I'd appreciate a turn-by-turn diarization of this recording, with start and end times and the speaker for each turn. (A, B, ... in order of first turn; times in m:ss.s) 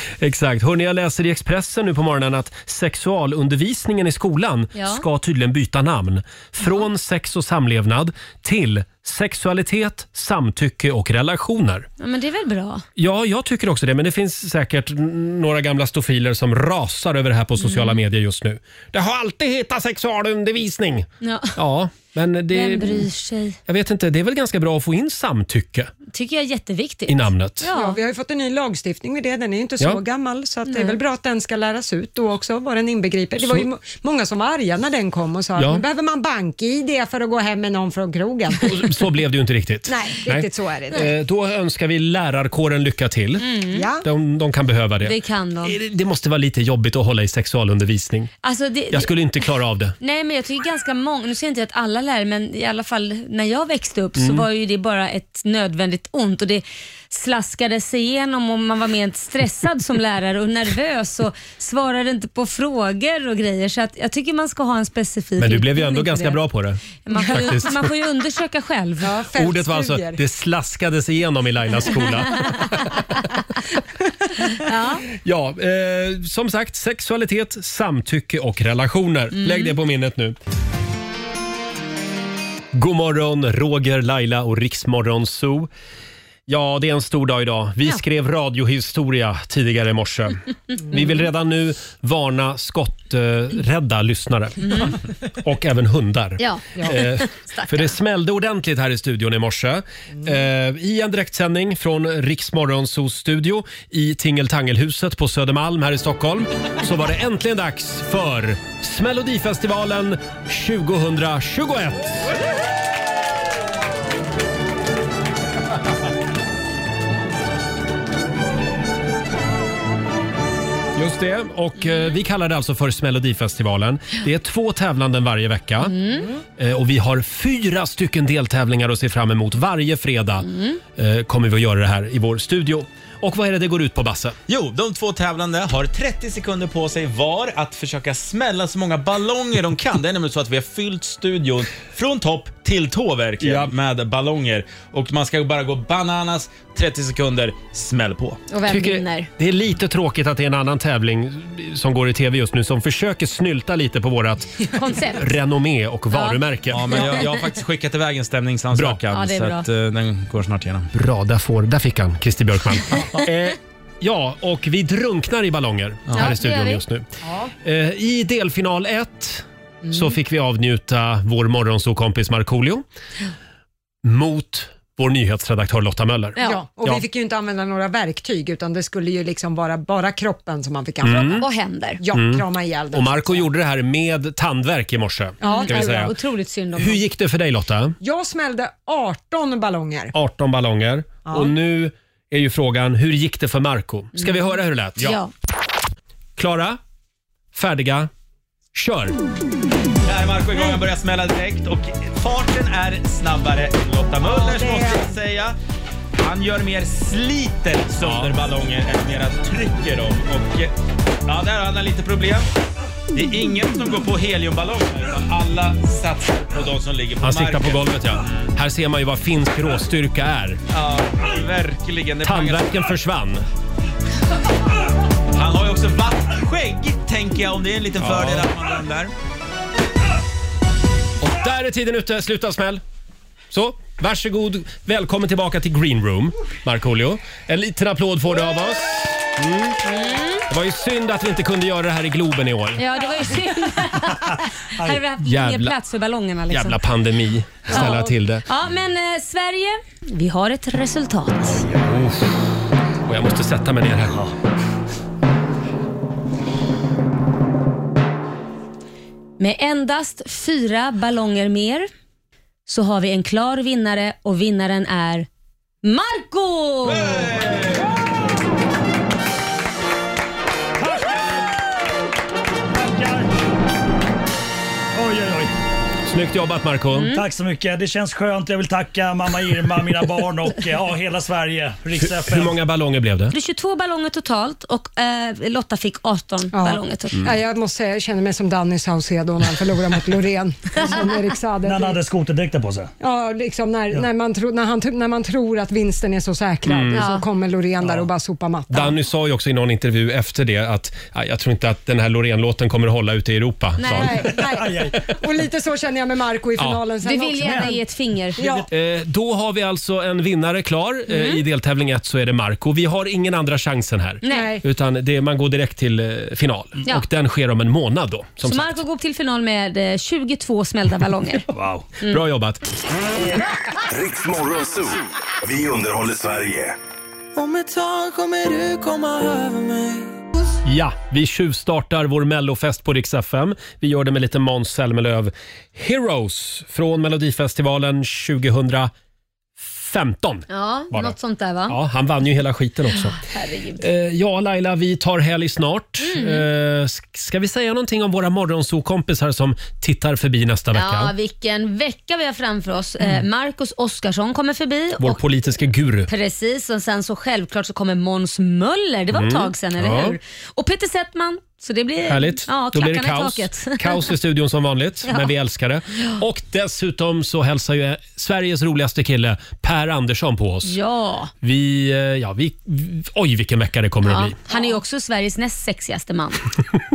0:00.2-0:11.9 A
0:04.7-0:05.0 B
0:12.0-0:12.8 B
0:13.0-0:23.1 A
0:17.6-0:18.0 B
0:21.2-0:21.6 B
0:22.5-0:23.6 B
0:23.7-0:25.9 A
0:26.1-0:28.0 B
0:27.1-0:27.6 A
0:27.7-0:39.0 C
0:30.7-0:31.0 B
0:33.4-0:33.7 A
0:35.6-0:35.8 A
0:38.6-0:43.5 A
0:39.9-0:41.1 C
0:43.4-0:43.9 B
0:43.7-0:44.0 C
0:44.0-0:48.3 A
0:45.0-0:45.8 B
0:48.4-0:49.1 B
0:48.9-0:50.0 A
0:50.0-1:06.4 B
0:54.2-0:54.5 A
1:05.4-1:07.9 A
1:07.0-1:09.1 B
1:09.0-1:10.2 C
1:09.3-1:13.0 A
1:12.3-1:12.7 B
1:14.5-1:15.0 B
1:15.2-1:20.4 A
1:19.4-1:19.7 B
1:22.7-1:25.7 A
1:26.5-1:52.3 A
1:34.6-1:34.9 B
1:36.4-1:37.9 B
2:01.0-2:06.0 A
2:05.8-2:06.3 B
2:06.6-2:14.4 A
2:10.4-2:10.8 B
2:14.5-2:28.4 D
2:23.4-2:23.7 A
2:28.5-2:29.3 B
2:28.7-2:37.1 A
2:34.7-2:35.3 B
2:36.1-2:36.4 B
2:36.7-2:40.9 D
2:36.9-2:37.2 B
2:38.7-2:39.0 A
2:39.1-2:39.6 B
2:40.9-2:47.0 A
2:46.1-2:46.8 B
2:47.2-2:47.5 C
2:47.6-2:52.8 A
2:54.0-2:57.0 A
2:56.4-2:56.6 B
2:56.4-3:01.4 C
3:01.0-3:01.4 A
3:01.1-3:02.0 B
3:02.0-3:03.5 C
3:02.1-3:06.1 A
3:05.4-3:06.1 C
3:05.4-3:07.0 B
3:06.8-3:08.0 A
3:08.0-3:10.1 C
3:10.1-3:15.1 A
3:14.2-3:15.3 B
3:16.4-3:16.8 A
3:17.5-3:18.1 A
3:18.7-3:19.2 A
3:20.0-3:25.6 D
3:24.2-3:25.1 C
3:26.2-3:30.7 D
3:28.0-3:28.3 A
3:31.3-3:32.5 D
3:33.1-3:38.5 D
3:37.2-3:40.6 A
3:40.7-3:42.9 D
3:42.2-3:43.4 A
3:45.3-3:49.1 D
3:48.0-3:48.5 A
3:51.2-3:52.8 A
3:53.5-3:59.8 A
3:59.8-4:00.5 B
4:00.5-4:02.8 A
4:02.8-4:06.8 B
4:05.2-4:05.7 A
4:06.5-4:08.4 A
4:07.7-4:11.6 B
4:11.6-4:12.4 A
4:13.0-4:14.2 A
4:14.1-4:14.3 E
4:19.4-4:21.9 B
4:22.7-4:25.3 B
4:25.8-4:27.4 B
4:26.9-4:28.0 D
4:30.8-4:31.4 E
4:32.7-4:33.3 E
4:34.9-4:35.5 E
4:36.0-4:37.1 A
4:36.9-4:37.2 B
4:37.1-4:42.6 E
4:42.0-4:43.3 A
4:43.3-4:47.2 B
4:46.5-4:52.0 C
4:51.6-4:52.9 E
4:53.0-4:58.9 C
4:56.6-4:57.1 A
4:56.9-4:57.2 B
4:58.7-5:04.3 A
5:03.8-5:04.4 B
5:03.9-5:07.8 C
5:04.3-5:05.1 E
5:07.0-5:08.4 B
5:08.4-5:08.7 C
5:08.4-5:08.7 E
5:08.7-5:18.8 A
5:11.1-5:11.4 B
5:14.2-5:14.5 B
5:14.3-5:14.6 C
5:18.4-5:21.4 B
5:21.5-5:21.9 E
5:22.0-5:22.6 A
5:23.8-5:26.8 F
5:27.4-5:30.2 G
5:30.6-5:38.9 A
5:39.6-5:41.1 A
5:40.5-5:41.8 B
5:41.7-5:43.2 A
5:43.0-5:43.8 B
5:43.8-5:51.1 A
5:46.0-5:46.4 B
5:50.7-5:55.2 B
5:55.0-5:56.1 A
5:56.1-6:04.1 B
5:59.1-6:00.2 A
6:02.1-6:10.8 A
6:05.1-6:05.3 B
6:10.6-6:11.3 B
6:11.4-6:14.4 A
6:14.0-6:16.5 B